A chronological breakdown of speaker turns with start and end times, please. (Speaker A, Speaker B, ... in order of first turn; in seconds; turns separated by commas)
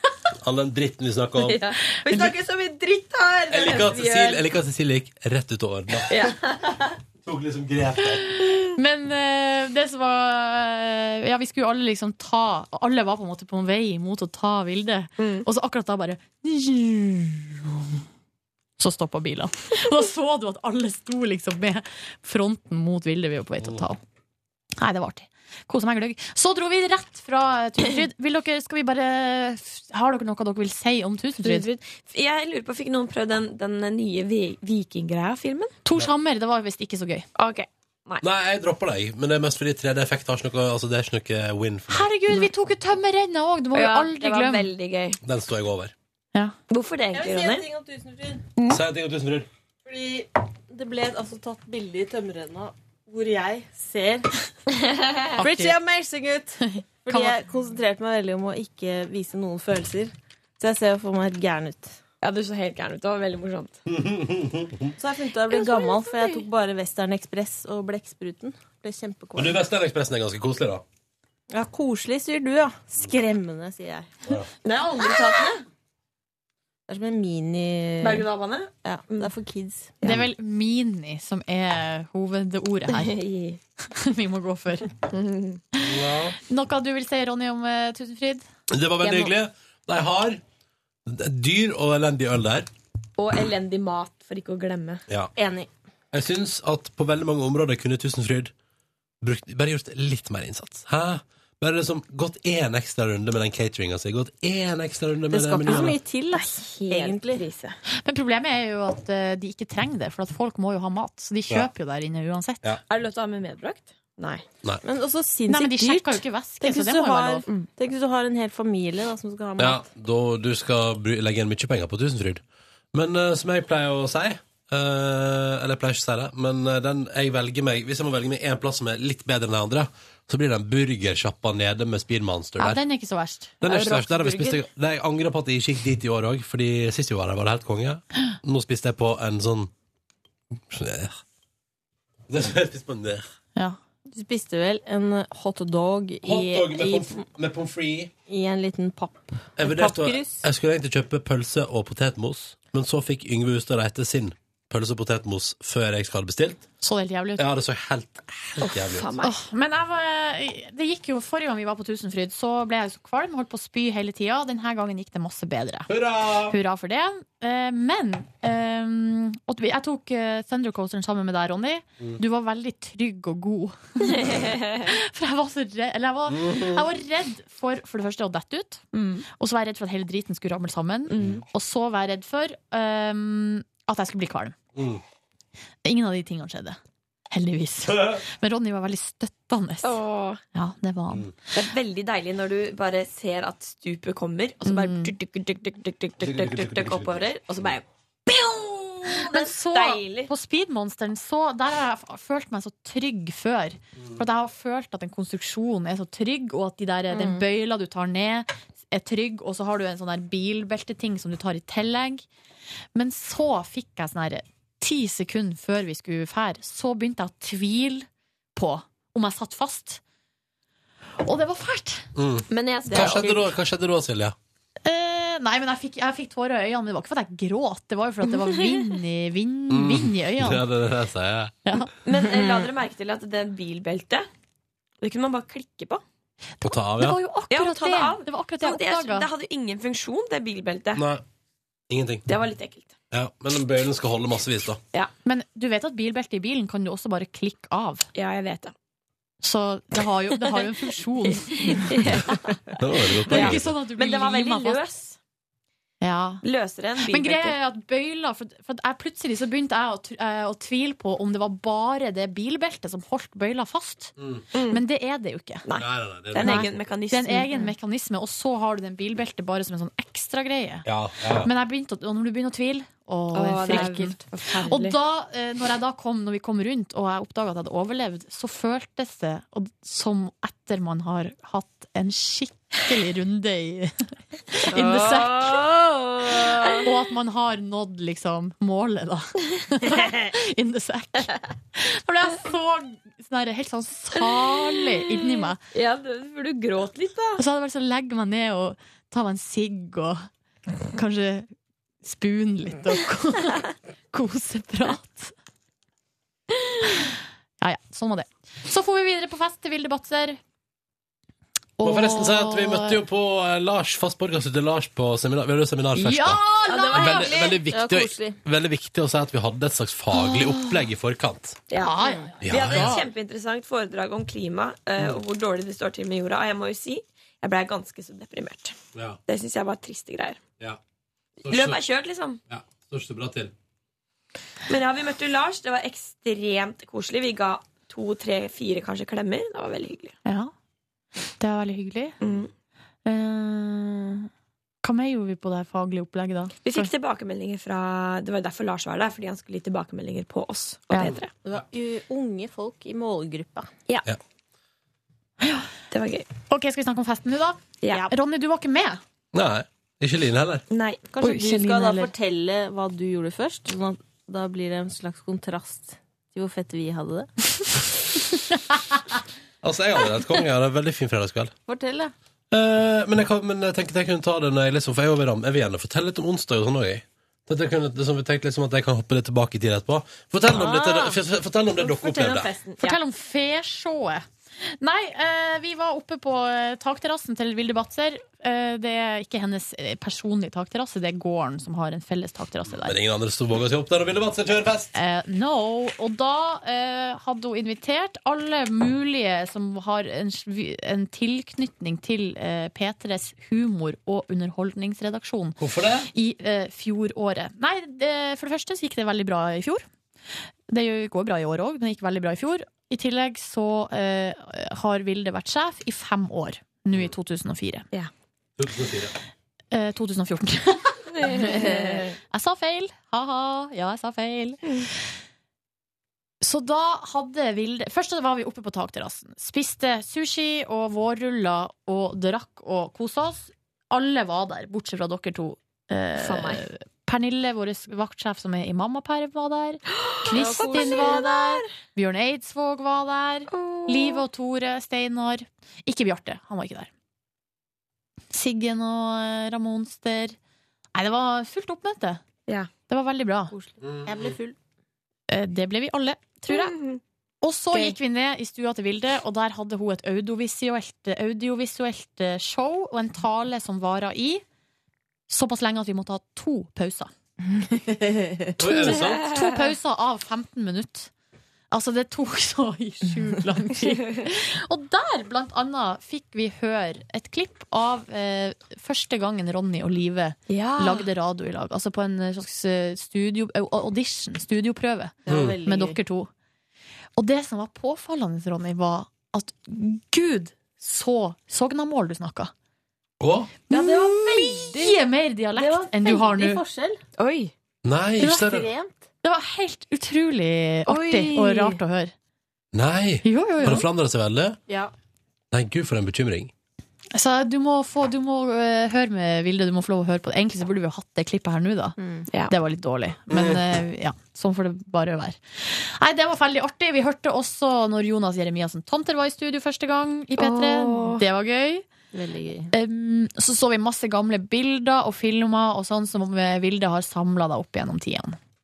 Speaker A: 0.4-1.6, Speaker B: 1.4-4.4, Speaker C: 2.0-2.3, Speaker A: 3.5-6.2, Speaker B: 6.0-6.9, Speaker A: 7.2-8.2, Speaker C: 8.4-17.8, Speaker B: 15.2-15.4, Speaker C: 18.8-24.0, Speaker C: 24.8-31.6, Speaker D: 31.4-31.8, Speaker B: 31.9-35.7, Speaker C: 35.8-37.2, Speaker B: 37.4-38.2, Speaker A: 38.2-42.1, Speaker C: 41.9-44.7, Speaker B: 43.7-45.2, Speaker A: 45.2-45.9, Speaker B: 46.7-47.6, Speaker D: 47.1-48.5, Speaker A: 48.7-49.5, Speaker D: 49.8-54.3, Speaker B: 54.8-55.3, Speaker C: 55.4-55.8, Speaker D: 55.4-62.0, Speaker C: 57.1-57.4, Speaker B: 62.2-63.8, Speaker A: 63.9-64.9, Speaker D: 65.0-69.7, Speaker B: 65.5-66.4, Speaker A: 69.4-70.8, Speaker D: 71.5-74.1, Speaker B: 74.6-75.6, Speaker D: 76.9-78.3, Speaker B: 78.0-79.2, Speaker D: 78.8-79.9, Speaker C: 80.0-83.2, Speaker B: 82.9-83.6, Speaker C: 83.9-84.9, Speaker B: 85.1-85.6, Speaker A: 85.8-86.4, Speaker C: 86.4-88.4, Speaker A: 88.7-90.4, Speaker A: 91.0-92.7, Speaker B: 93.2-95.0, Speaker D: 95.3-95.7, Speaker A: 96.1-98.5, Speaker A: 99.2-106.0, Speaker D: 105.3-107.4, Speaker B: 105.6-107.8, Speaker C: 108.0-112.6, Speaker B: 112.9-114.4, Speaker D: 114.8-119.9, Speaker C: 115.5-117.5, Speaker A: 119.6-122.4, Speaker A: 122.9-132.8, Speaker C: 132.6-133.6, Speaker A: 133.6-139.7, Speaker B: 133.6-134.6, Speaker A: 140.7-141.2, Speaker A: 142.3-143.2, Speaker D: 144.1-147.2, Speaker A: 146.2-148.1, Speaker D: 148.3-150.4, Speaker A: 149.6-156.6, Speaker C: 156.8-157.4, Speaker A: 157.4-159.1, Speaker B: 158.6-159.3, Speaker C: 159.2-165.9, Speaker A: 165.9-166.6, Speaker C: 166.5-184.6, Speaker B: 174.1-174.8, Speaker A: 176.3-176.8, Speaker B: 178.9-179.2, Speaker B: 181.1-181.4, Speaker A: 181.2-181.4, Speaker A: 184.7-185.0, Speaker C: 185.8-186.8, Speaker C: 187.3-190.0, Speaker B: 189.8-190.4, Speaker C: 190.5-191.3, Speaker B: 191.5-200.3, Speaker C: 194.6-195.1, Speaker A: 196.2-197.3, Speaker C: 199.1-212.3, Speaker D: 207.1-207.4, Speaker C: 212.9-220.0, Speaker C: 221.2-222.1, Speaker A: 222.2-224.3, Speaker B: 222.5-223.5, Speaker C: 224.8-230.7, Speaker B: 228.5-228.9, Speaker A: 229.7-231.6, Speaker C: 231.6-231.9, Speaker B: 232.0-234.3, Speaker B: 235.0-236.0, Speaker C: 236.6-239.3, Speaker A: 236.6-237.2, Speaker B: 237.5-241.0, Speaker A: 240.9-241.2, Speaker A: 241.9-242.2, Speaker B: 242.3-242.9, Speaker A: 243.1-244.8, Speaker C: 245.2-248.1, Speaker B: 248.1-248.7, Speaker C: 249.4-252.3, Speaker B: 251.3-252.5, Speaker A: 252.8-253.7, Speaker C: 253.3-254.8, Speaker B: 253.3-255.2, Speaker C: 256.0-256.4, Speaker B: 256.4-257.5, Speaker C: 257.0-264.1, Speaker A: 264.2-264.4, Speaker B: 264.5-264.8, Speaker C: 264.7-265.6, Speaker B: 265.6-267.7, Speaker A: 265.8-266.8, Speaker C: 266.4-270.9, Speaker A: 270.8-271.5, Speaker C: 271.4-285.6, Speaker B: 273.3-274.9, Speaker B: 284.7-286.9, Speaker C: 286.8-295.6, Speaker B: 294.2-297.4, Speaker C: 297.4-300.3, Speaker C: 300.9-301.5, Speaker C: 302.0-305.3, Speaker C: 306.8-310.4, Speaker C: 311.8-313.0, Speaker A: 311.8-316.4, Speaker C: 315.9-317.3, Speaker B: 316.6-317.6, Speaker A: 316.9-321.6, Speaker D: 317.6-318.4, Speaker B: 321.7-328.8, Speaker C: 321.8-323.1, Speaker A: 322.4-323.0, Speaker A: 328.9-329.2, Speaker B: 329.3-330.4, Speaker B: 331.4-332.4, Speaker A: 331.4-331.8, Speaker A: 332.5-333.5, Speaker B: 334.7-340.1, Speaker C: 340.2-340.5, Speaker C: 341.4-342.2, Speaker B: 342.2-342.5, Speaker C: 343.0-344.3, Speaker C: 344.8-346.9, Speaker B: 346.6-351.3, Speaker C: 350.9-351.2, Speaker D: 351.4-353.7, Speaker C: 355.4-355.7, Speaker B: 355.9-356.3, Speaker C: 356.5-359.0, Speaker B: 357.8-358.1, Speaker A: 359.3-360.6, Speaker B: 360.7-361.0, Speaker D: 361.1-367.3, Speaker C: 361.2-362.1, Speaker A: 369.6-371.5, Speaker D: 371.7-372.1, Speaker A: 372.5-382.5, Speaker D: 380.5-381.2, Speaker B: 381.8-383.0, Speaker C: 382.8-392.9, Speaker A: 392.7-394.9, Speaker C: 394.9-405.6, Speaker A: 405.6-406.1, Speaker C: 406.1-409.9, Speaker C: 410.7-417.9, Speaker A: 418.6-419.1, Speaker C: 419.7-424.9, Speaker B: 421.1-422.1, Speaker C: 426.4-446.9, Speaker B: 436.2-436.6, Speaker B: 440.0-441.7, Speaker D: 440.3-441.3, Speaker B: 443.5-444.2, Speaker C: 448.3-450.4, Speaker C: 450.9-452.2, Speaker C: 452.9-453.5, Speaker D: 453.5-454.6, Speaker A: 453.8-454.1, Speaker C: 455.3-456.8, Speaker B: 456.5-457.0, Speaker C: 457.4-464.4, Speaker C: 465.3-467.1, Speaker C: 468.5-471.1, Speaker A: 468.6-469.3, Speaker B: 469.2-469.5, Speaker C: 471.7-486.3, Speaker B: 480.5-481.1, Speaker D: 485.2-486.0, Speaker A: 485.3-485.6, Speaker C: 487.2-492.5, Speaker A: 493.2-493.5, Speaker C: 493.7-496.6, Speaker D: 493.7-494.9, Speaker D: 495.5-497.0, Speaker B: 497.2-497.5, Speaker A: 497.8-498.7, Speaker D: 498.2-499.0, Speaker C: 499.2-502.1, Speaker B: 500.9-501.8, Speaker A: 502.7-504.6, Speaker C: 503.2-503.9, Speaker A: 505.5-506.5, Speaker C: 507.1-512.0, Speaker D: 512.0-512.3, Speaker C: 512.5-521.9, Speaker A: 513.3-513.6, Speaker B: 520.4-521.2, Speaker D: 522.1-522.7, Speaker C: 522.7-528.4